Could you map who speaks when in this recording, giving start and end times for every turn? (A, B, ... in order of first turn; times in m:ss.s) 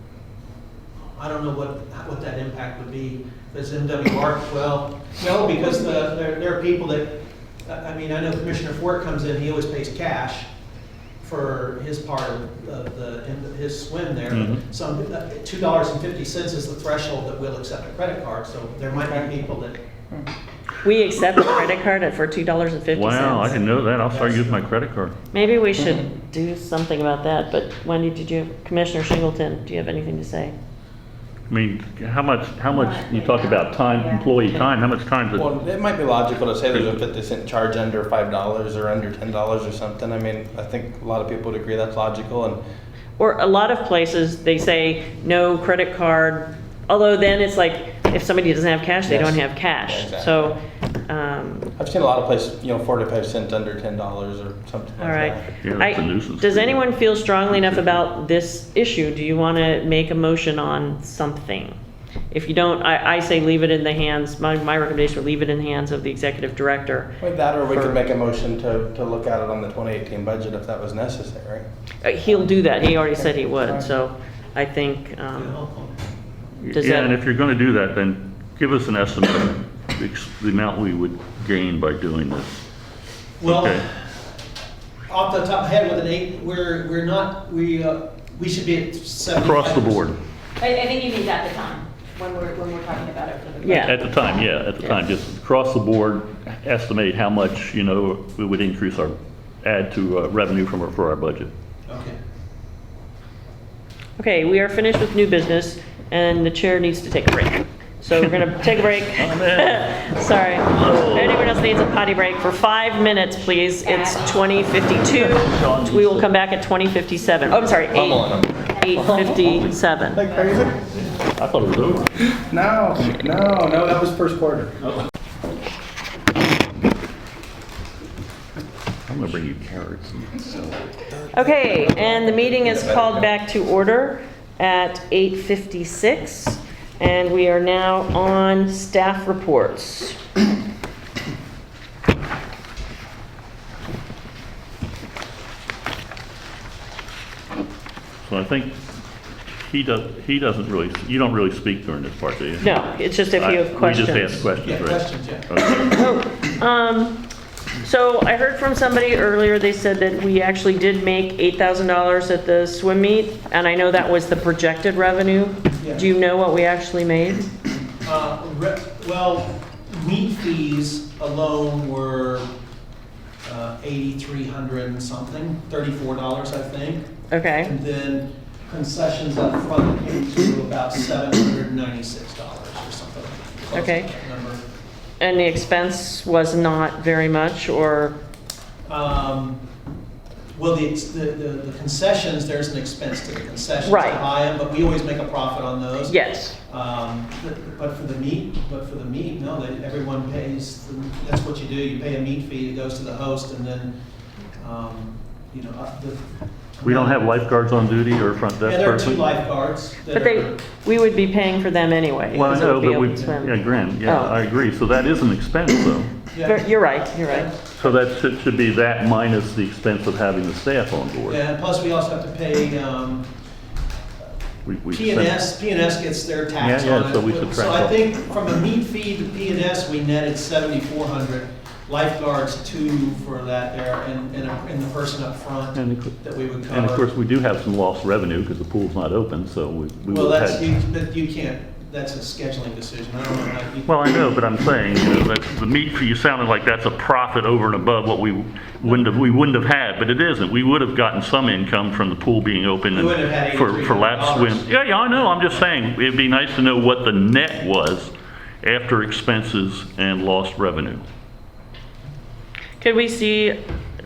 0:01.1-0:10.5 A
0:11.2-0:19.8 A
0:14.3-0:14.6 B
0:19.0-0:19.3 C
0:20.8-0:23.6 D
0:22.9-0:25.1 B
0:24.1-0:24.7 A
0:25.3-0:30.5 D
0:31.5-0:35.5 B
0:32.8-0:34.2 E
0:35.3-0:42.6 C
0:43.2-0:51.7 D
0:49.0-0:50.5 C
0:51.8-0:55.4 C
0:55.0-1:01.7 D
0:55.6-0:56.8 B
1:02.3-1:08.0 D
1:07.2-1:11.6 C
1:12.0-1:15.5 D
1:13.2-1:13.8 C
1:15.3-1:15.9 A
1:16.6-1:22.6 B
1:16.7-1:17.1 D
1:23.4-1:24.1 A
1:23.4-1:23.9 B
1:25.1-1:30.2 A
1:29.4-1:30.2 B
1:30.6-1:34.3 E
1:33.6-1:34.0 D
1:33.8-1:41.5 B
1:41.9-1:42.2 A
1:44.2-1:58.2 D
1:49.1-1:50.0 B
1:50.7-1:51.5 B
1:53.8-1:54.3 E
1:55.1-1:56.3 B
1:57.9-1:59.6 C
1:58.8-2:00.2 D
2:00.1-2:00.8 C
2:01.4-2:02.1 B
2:02.5-2:04.7 C
2:09.1-2:10.7 B
2:11.1-2:13.3 C
2:11.3-2:20.2 D
2:28.2-2:28.8 B
2:29.7-2:32.7 B
2:32.6-2:34.4 D
2:33.3-2:35.9 B
2:34.6-2:35.5 A
2:35.9-2:37.2 D
2:37.8-2:47.5 D
2:45.8-2:46.0 A
2:48.0-2:52.5 A
2:53.4-2:57.1 A
2:57.3-2:57.7 D
2:57.6-3:04.6 A
3:03.7-3:04.1 D
3:05.2-3:08.2 D
3:08.9-3:09.6 A
3:10.5-3:23.9 A
3:13.8-3:14.2 D
3:16.1-3:16.5 D
3:24.6-3:26.3 A
3:26.8-3:27.3 A
3:26.8-3:29.3 B
3:28.6-3:30.6 A
3:30.1-3:34.4 D
3:32.3-3:33.4 A
3:32.3-3:36.1 B
3:36.3-3:37.9 A
3:36.4-3:37.7 D
3:37.8-3:41.4 B
3:41.2-3:43.3 A
3:44.6-3:45.4 B
3:44.9-3:57.1 A
3:46.6-3:47.9 B
3:55.7-4:00.6 B
4:00.1-4:04.1 A
4:03.9-4:21.0 B
4:12.9-4:15.6 A
4:22.8-4:23.6 D